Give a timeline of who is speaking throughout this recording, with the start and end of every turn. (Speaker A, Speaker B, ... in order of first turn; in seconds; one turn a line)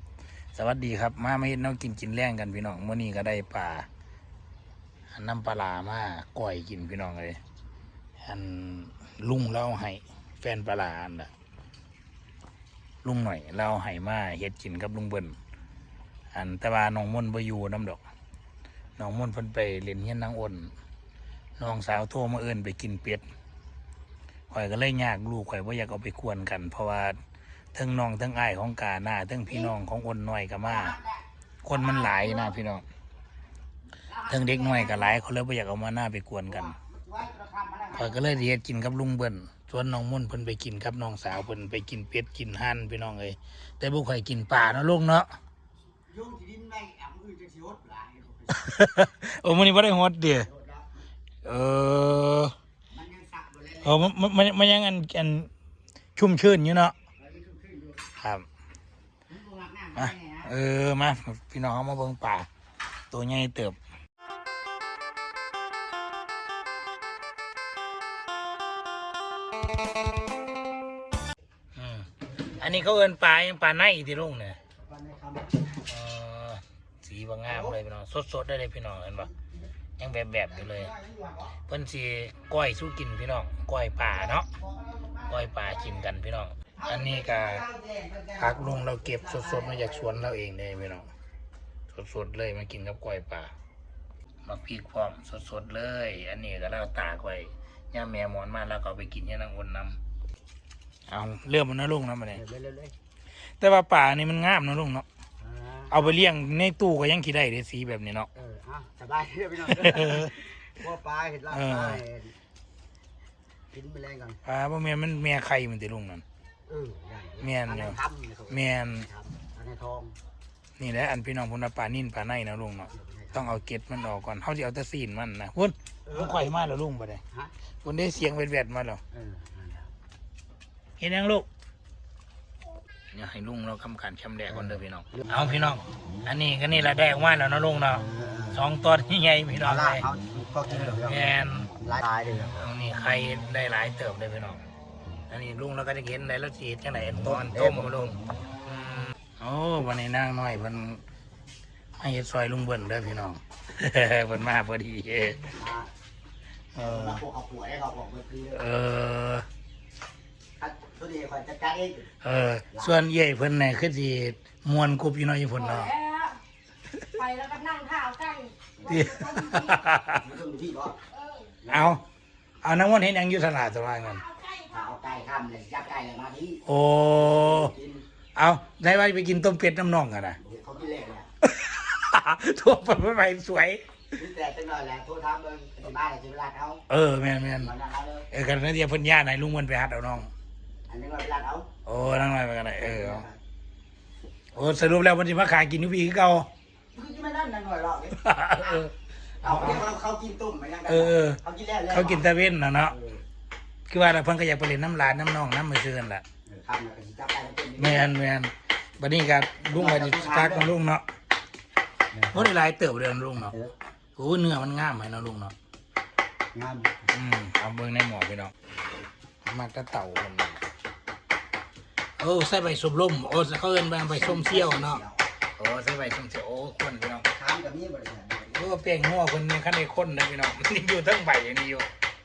Speaker A: 0.5-3.9
Speaker A: 5.1-7.4
Speaker A: 8.2-11.3
Speaker A: 13.0-15.4
Speaker A: 16.3-18.0
Speaker A: 19.0-20.7
Speaker A: 21.6-23.2
Speaker A: 24.5-27.2
Speaker A: 27.7-31.0
Speaker B: 29.5-29.7
Speaker B: 30.6-32.5
Speaker A: 31.6-32.9
Speaker B: 34.1-35.2
Speaker A: 34.3-36.7
Speaker B: 36.5-38.5
Speaker A: 37.9-45.3
Speaker B: 46.1-48.7
Speaker A: 48.5-50.5
Speaker B: 50.4-51.0
Speaker A: 51.4-52.5
Speaker B: 52.9-54.0
Speaker A: 53.8-55.5
Speaker A: 56.2-57.0
Speaker B: 57.2-58.1
Speaker A: 58.2-58.5
Speaker B: 59.3-60.5
Speaker A: 60.0-62.5
Speaker A: 63.1-63.8
Speaker A: 71.7-74.6
Speaker B: 74.8-75.8
Speaker A: 75.8-79.3
Speaker B: 77.5-77.8
Speaker B: 79.2-79.6
Speaker A: 80.0-80.9
Speaker B: 80.5-81.5
Speaker A: 81.5-84.5
Speaker B: 84.5-86.0
Speaker A: 85.3-87.6
Speaker B: 86.8-90.3
Speaker A: 88.4-91.1
Speaker A: 91.9-93.5
Speaker A: 94.4-100.0
Speaker A: 101.1-102.4
Speaker B: 102.3-102.9
Speaker A: 103.4-105.1
Speaker B: 105.4-106.2
Speaker A: 105.9-108.3
Speaker B: 108.3-112.3
Speaker A: 109.7-110.3
Speaker A: 111.5-112.0
Speaker B: 113.7-114.4
Speaker A: 114.4-116.2
Speaker B: 116.7-120.2
Speaker A: 117.4-118.0
Speaker A: 118.5-119.1
Speaker A: 120.8-127.2
Speaker B: 122.9-123.5
Speaker B: 126.0-126.5
Speaker A: 127.8-129.0
Speaker B: 129.1-129.9
Speaker A: 131.0-131.5
Speaker A: 133.1-140.1
Speaker B: 134.5-135.8
Speaker B: 138.1-138.6
Speaker B: 139.6-142.6
Speaker A: 140.8-141.7
Speaker A: 142.5-144.6
Speaker A: 145.3-148.2
Speaker B: 147.2-148.1
Speaker A: 149.4-151.0
Speaker A: 152.0-155.6
Speaker B: 155.6-155.9
Speaker A: 156.8-157.2
Speaker B: 156.8-158.7
Speaker A: 158.5-159.5
Speaker B: 160.6-162.1
Speaker A: 162.2-165.9
Speaker B: 162.7-163.0
Speaker C: 165.6-166.4
Speaker C: 167.2-169.8
Speaker B: 168.8-169.2
Speaker A: 168.9-170.2
Speaker B: 170.0-171.0
Speaker B: 171.6-172.0
Speaker A: 171.7-172.0
Speaker A: 172.6-174.2
Speaker C: 174.2-174.8
Speaker B: 174.7-178.1
Speaker A: 176.7-177.7
Speaker A: 178.3-180.4
Speaker B: 180.4-181.3
Speaker A: 181.4-183.8
Speaker B: 184.2-186.8
Speaker A: 186.9-187.7
Speaker B: 187.6-188.3
Speaker A: 188.3-190.3
Speaker B: 190.9-191.7
Speaker A: 191.8-193.3
Speaker B: 192.8-193.4
Speaker A: 194.5-196.5
Speaker B: 196.9-198.9
Speaker A: 198.2-199.9
Speaker B: 199.4-203.2
Speaker A: 200.9-203.0
Speaker A: 203.9-206.2
Speaker B: 206.4-208.1
Speaker A: 207.8-211.1
Speaker B: 209.7-210.7
Speaker B: 212.1-212.5
Speaker A: 212.3-213.5
Speaker B: 213.4-213.7
Speaker A: 214.2-215.6
Speaker B: 216.5-216.9
Speaker A: 217.1-218.5
Speaker A: 219.4-220.6
Speaker A: 222.2-225.0
Speaker B: 224.1-225.2
Speaker A: 225.6-227.3
Speaker B: 227.3-228.8
Speaker A: 228.6-231.9